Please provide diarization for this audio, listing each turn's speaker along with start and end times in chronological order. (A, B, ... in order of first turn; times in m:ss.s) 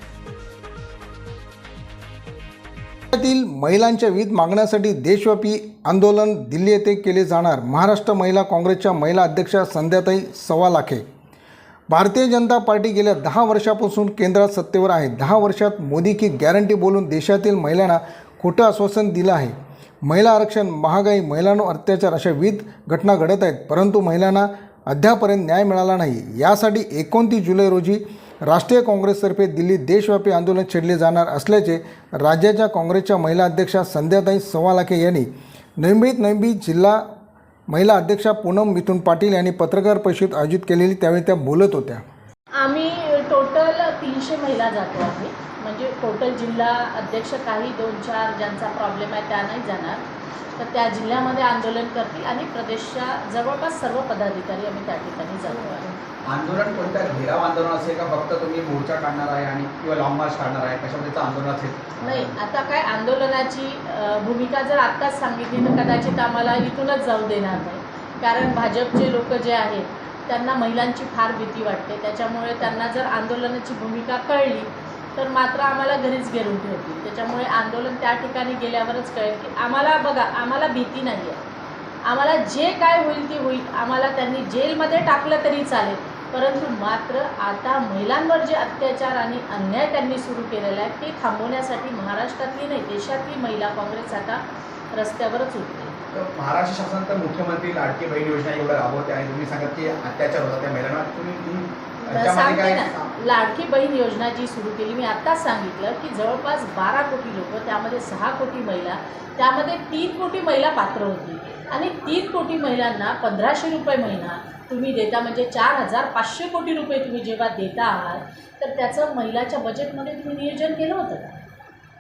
0:03.1-0:11.0 A
0:11.9-0:19.6 A
0:20.1-0:35.3 A
0:35.8-0:37.0 A
0:37.7-0:42.0 A
0:42.6-0:50.0 B
0:50.6-0:56.0 B
0:56.2-1:02.3 C
1:02.0-1:21.4 B
1:22.0-1:34.4 B
1:34.9-1:35.9 B
1:36.1-1:43.1 C
1:42.1-2:01.4 B